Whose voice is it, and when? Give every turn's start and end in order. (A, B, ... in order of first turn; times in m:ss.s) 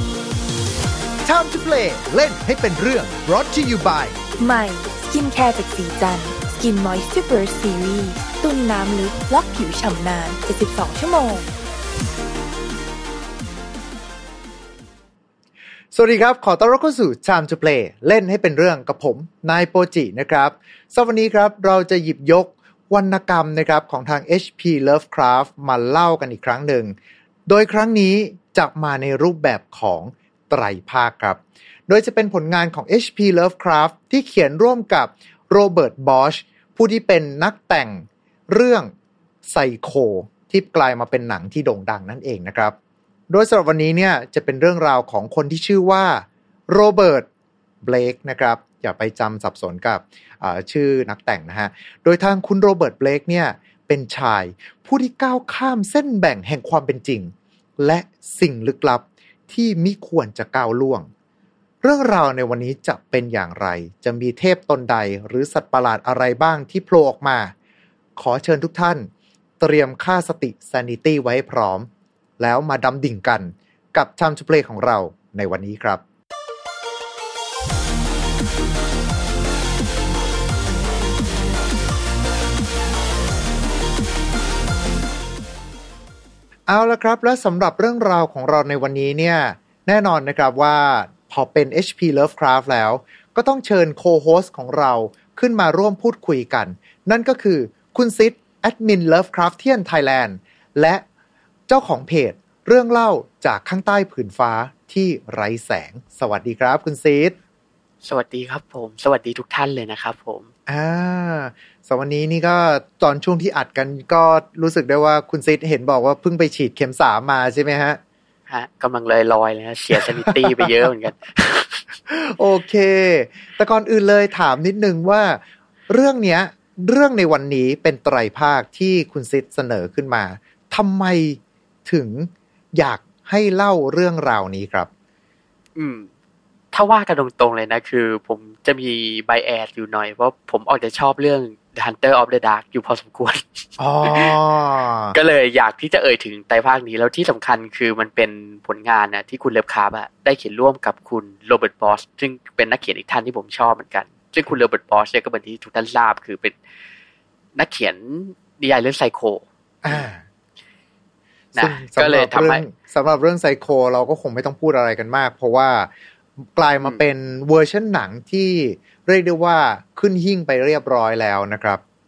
0:01.2-0:04.2 A
0:04.4-0:11.5 B
0:15.9-0:26.9 A
0:27.5-0:38.9 A
0:39.4-0:42.8 A
0:43.3-0:47.3 A
0:47.8-1:01.1 A
1:01.8-1:07.5 A
1:08.2-1:16.0 A
1:26.7-1:41.0 A
1:41.7-1:47.4 A
1:48.0-1:50.5 C
1:50.7-1:58.0 A
1:58.5-2:02.0 C
2:00.0-2:00.8 A
2:02.1-2:14.9 A
2:15.8-2:16.1 C
2:16.7-2:24.4 C
2:23.8-2:25.1 A
2:25.1-2:36.6 C
2:37.6-2:40.1 C
2:39.8-2:40.2 A
2:41.5-2:42.6 C
2:41.6-2:45.9 A
2:46.5-2:51.8 A